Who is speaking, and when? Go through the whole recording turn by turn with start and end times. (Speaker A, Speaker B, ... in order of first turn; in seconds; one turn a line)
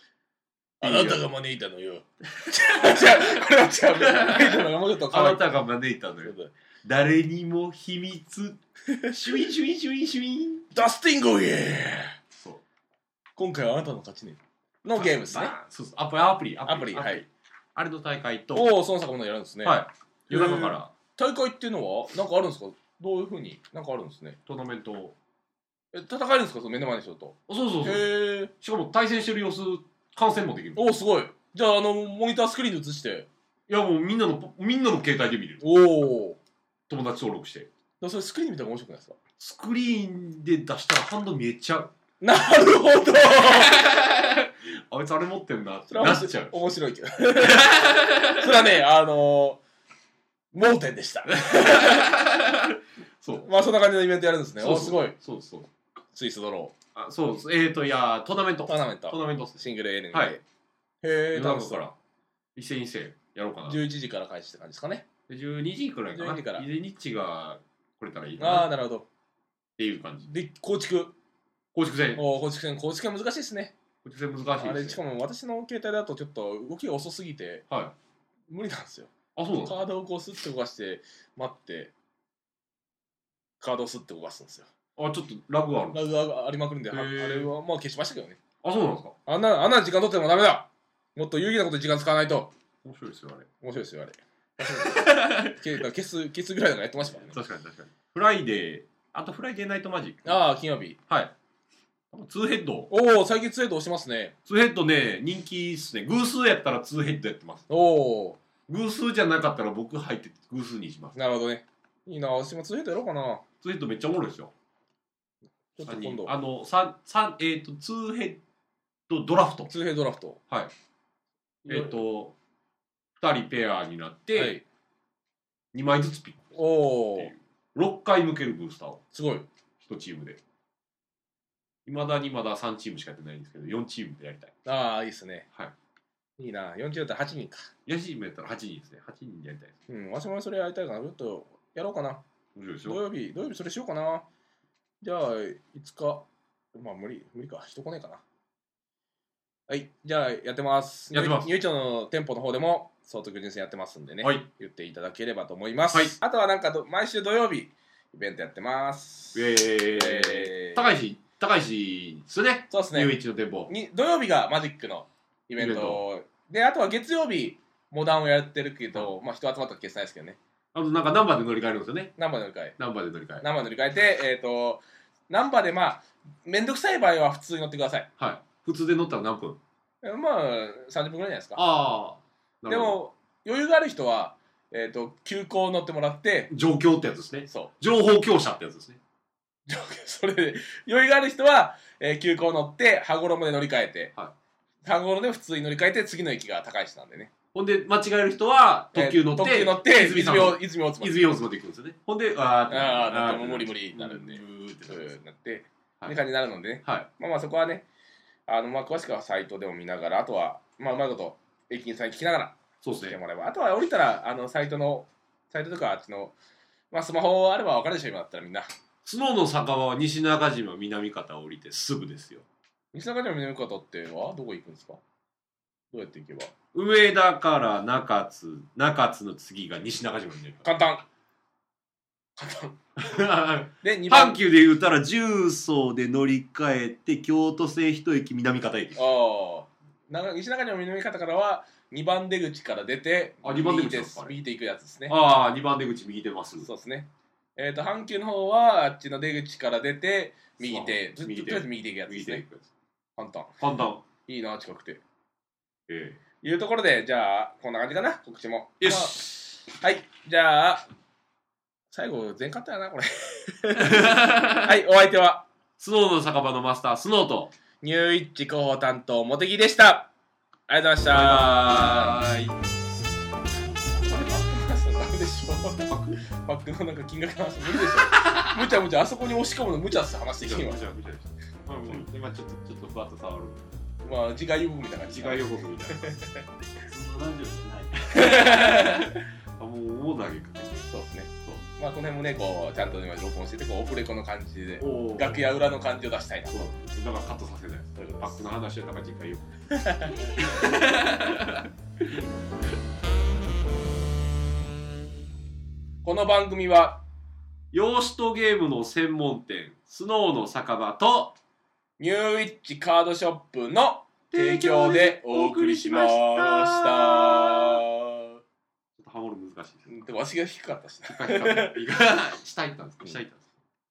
Speaker A: 0.8-5.5
Speaker B: 0.8-1.2
Speaker B: 4.0-10.7
Speaker A: 6.2-6.5
Speaker A: 10.7-12.2
Speaker B: 12.3-12.6
Speaker A: 13.4-15.6
Speaker B: 15.0-18.7
Speaker A: 16.6-17.2
Speaker A: 18.5-24.4
Speaker B: 19.6-20.9
Speaker B: 24.4-25.1
Speaker A: 25.9-28.5
Speaker B: 27.5-30.8
Speaker A: 30.8-33.3
Speaker B: 33.7-35.6
Speaker A: 35.6-36.4
Speaker B: 36.9-37.7
Speaker A: 38.0-39.2
Speaker B: 39.4-41.9
Speaker A: 42.2-43.8
Speaker B: 43.8-46.5
Speaker A: 45.9-49.6
Speaker B: 47.4-48.4
Speaker A: 50.5-52.1
Speaker B: 51.4-53.5
Speaker A: 53.4-55.1
Speaker B: 54.6-55.7
Speaker A: 56.1-56.8
Speaker B: 56.9-59.6
Speaker A: 58.7-60.4
Speaker A: 61.0-61.8
Speaker B: 61.3-61.9
Speaker B: 62.5-63.8
Speaker A: 63.7-65.1
Speaker B: 65.3-68.7
Speaker A: 66.1-66.7
Speaker A: 68.4-69.1
Speaker B: 69.8-70.3
Speaker A: 70.2-71.2
Speaker B: 71.7-72.2
Speaker A: 72.2-73.8
Speaker B: 74.0-75.0
Speaker A: 74.6-77.6
Speaker B: 77.7-77.9
Speaker A: 78.5-79.1
Speaker B: 79.4-79.8
Speaker A: 79.6-81.9
Speaker A: 83.6-84.7
Speaker B: 85.0-86.0
Speaker A: 85.9-88.4
Speaker B: 86.9-87.5
Speaker B: 88.6-89.2
Speaker A: 89.3-92.5
Speaker B: 92.8-93.5
Speaker A: 93.6-97.4
Speaker B: 94.9-95.6
Speaker B: 97.1-100.4
Speaker A: 100.2-101.0
Speaker B: 101.1-101.3
Speaker B: 102.1-102.9
Speaker A: 102.9-104.4
Speaker B: 104.5-107.7
Speaker A: 107.7-108.4
Speaker B: 108.7-111.2
Speaker A: 111.1-113.4
Speaker B: 113.6-114.5
Speaker A: 115.7-116.3
Speaker B: 115.8-118.4
Speaker B: 119.1-119.7
Speaker A: 119.7-120.4
Speaker A: 121.6-122.0
Speaker B: 121.7-122.3
Speaker B: 123.2-124.5
Speaker A: 124.3-124.6
Speaker B: 125.7-126.6
Speaker A: 126.5-127.3
Speaker B: 127.1-129.0
Speaker A: 129.1-129.5
Speaker B: 129.8-130.4
Speaker B: 131.9-134.5
Speaker A: 134.6-135.5
Speaker A: 136.4-137.7
Speaker B: 137.9-139.8
Speaker A: 139.9-142.2
Speaker B: 142.5-143.0
Speaker A: 142.8-144.2
Speaker A: 145.0-148.2
Speaker A: 149.7-160.9
Speaker B: 151.1-151.5
Speaker B: 155.9-156.2
Speaker B: 159.3-163.7
Speaker A: 162.7-163.2
Speaker A: 163.7-170.4
Speaker B: 165.6-166.0
Speaker B: 170.7-172.1
Speaker A: 172.2-172.7
Speaker B: 172.8-173.5
Speaker A: 173.4-178.1
Speaker B: 178.2-179.6
Speaker A: 180.0-181.6
Speaker B: 181.6-183.0
Speaker A: 182.7-186.5
Speaker B: 186.5-189.0
Speaker A: 189.7-194.1
Speaker A: 194.8-197.3
Speaker B: 197.5-205.2
Speaker A: 198.9-201.3
Speaker A: 202.7-207.9
Speaker A: 208.5-216.4
Speaker B: 212.8-213.2
Speaker A: 216.9-218.7
Speaker B: 219.0-222.4
Speaker A: 222.9-225.0
Speaker A: 225.9-226.5
Speaker B: 226.7-230.7
Speaker A: 230.6-231.1
Speaker A: 232.4-232.8
Speaker B: 233.0-239.0
Speaker A: 233.8-234.4
Speaker A: 238.9-245.2
Speaker B: 243.4-244.3
Speaker B: 245.1-246.7
Speaker A: 246.6-252.4
Speaker B: 250.6-252.7
Speaker A: 253.2-253.6
Speaker B: 253.6-254.0
Speaker A: 254.2-255.0
Speaker B: 255.9-256.2
Speaker A: 256.4-260.9
Speaker B: 258.8-259.6
Speaker A: 261.9-265.5
Speaker B: 263.8-264.7
Speaker B: 265.8-267.5
Speaker A: 267.8-270.1
Speaker A: 270.7-272.2
Speaker B: 271.1-272.6
Speaker A: 273.7-280.8
Speaker B: 278.2-278.5
Speaker B: 280.4-283.7
Speaker A: 284.0-285.4
Speaker B: 285.1-286.1
Speaker A: 286.0-286.4
Speaker C: 286.7-288.7
Speaker A: 288.1-289.2
Speaker B: 288.2-290.8
Speaker A: 290.9-296.7
Speaker B: 294.8-295.4
Speaker B: 296.5-299.6
Speaker A: 298.0-298.4
Speaker A: 299.7-300.7
Speaker B: 300.4-301.6
Speaker A: 306.0-307.0
Speaker B: 307.7-311.4
Speaker A: 312.0-318.4
Speaker B: 314.3-317.8
Speaker B: 319.0-320.1
Speaker A: 319.9-321.8
Speaker B: 321.1-323.5